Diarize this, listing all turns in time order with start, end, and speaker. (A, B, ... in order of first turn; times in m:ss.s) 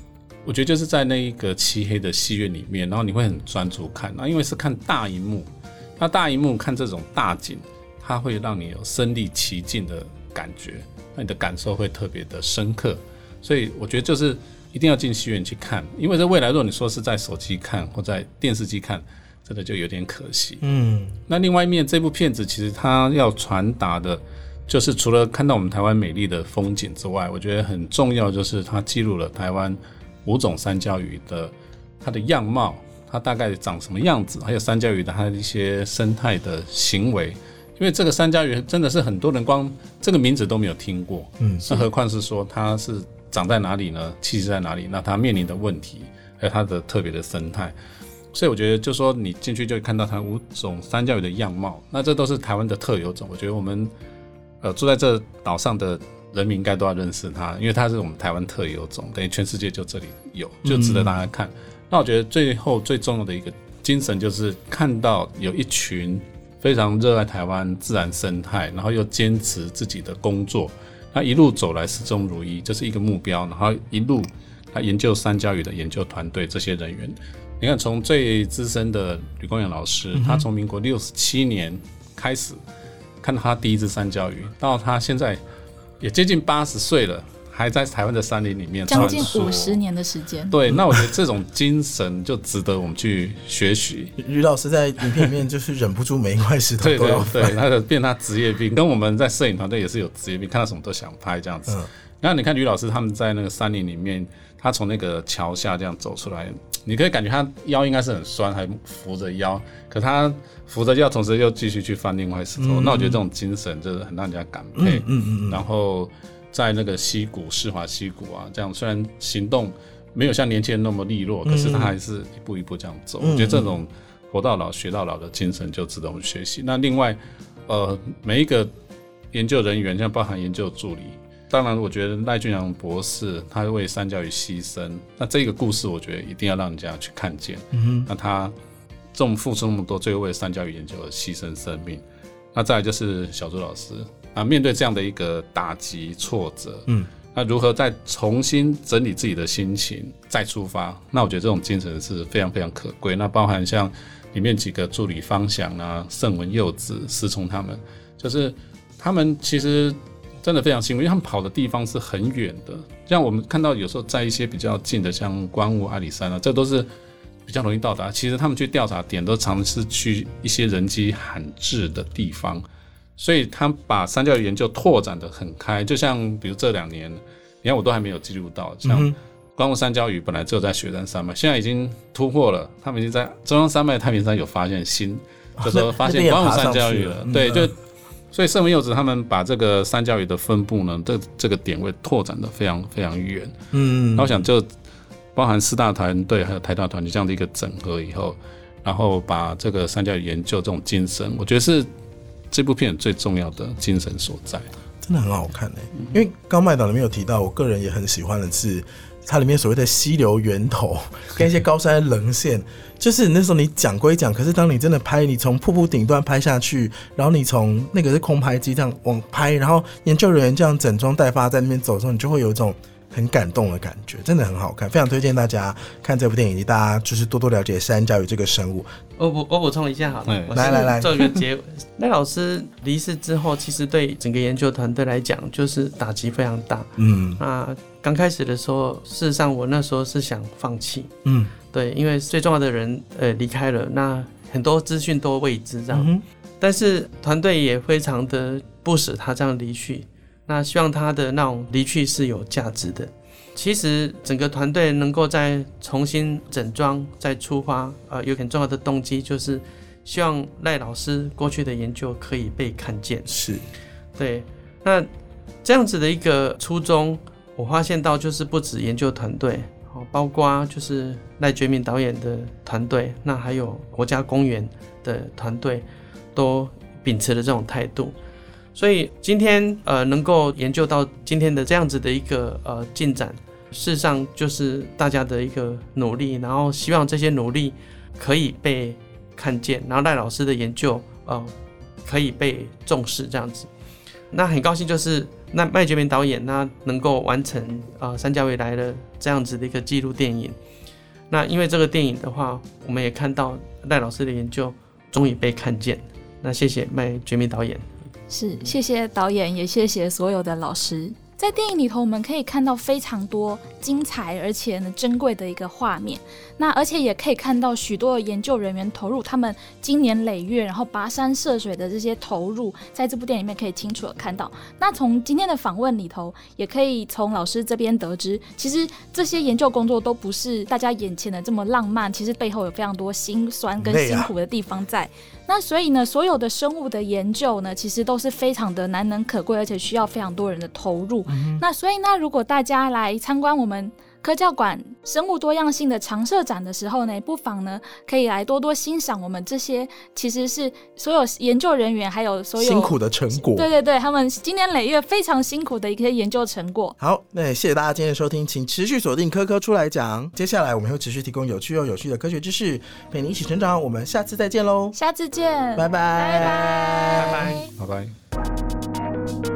0:00.4-0:20.6 A
0:20.6-0:21.2 B
0:21.3-0:47.7 A
0:41.4-0:41.7 B
0:48.3-0:53.9 A
0:54.6-1:22.6 A
1:00.6-1:01.2 B
1:20.1-1:20.5 B
1:23.2-1:25.4 A
1:26.0-1:29.8 A
1:28.9-1:30.5 C
1:28.9-1:29.5 B
1:30.5-1:34.2 A
1:30.7-1:31.1 B
1:34.2-1:37.6 B
1:36.8-2:08.7 A
1:52.6-1:53.2 B
1:54.8-1:55.6 B
2:01.4-2:02.0 B
2:03.2-2:03.8 B
2:09.3-2:18.6 A
2:17.7-2:18.1 B
2:19.1-2:22.0 A
2:22.5-2:46.9 A
2:47.5-2:52.6 A
2:53.2-3:07.8 A
2:58.8-2:59.2 B
3:05.6-3:07.7 B
3:08.3-3:13.6 A
3:13.7-3:14.5 B
3:14.2-3:14.7 A
3:15.4-3:21.9 A
3:22.5-3:24.7 A
3:25.0-3:48.9 B
3:49.2-4:01.1 D
3:50.3-3:50.7 A
3:50.5-3:51.4 B
3:57.0-3:57.4 B
4:01.2-4:01.5 B
4:01.7-4:23.3 D
4:05.9-4:06.2 B
4:23.3-4:23.6 B
4:24.2-4:25.1 D
4:25.6-4:38.2 D
4:38.8-4:51.5 D
4:52.0-4:53.7 D
4:54.3-5:00.6 D
5:01.3-5:07.9 D
5:08.3-5:57.0 C
5:33.8-5:34.3 B
5:41.3-5:41.6 B
5:52.6-5:53.7 B
5:57.0-6:05.0 B
6:04.9-6:07.7 C
6:05.8-6:07.6 B
6:07.1-6:07.7 D
6:07.8-6:08.1 A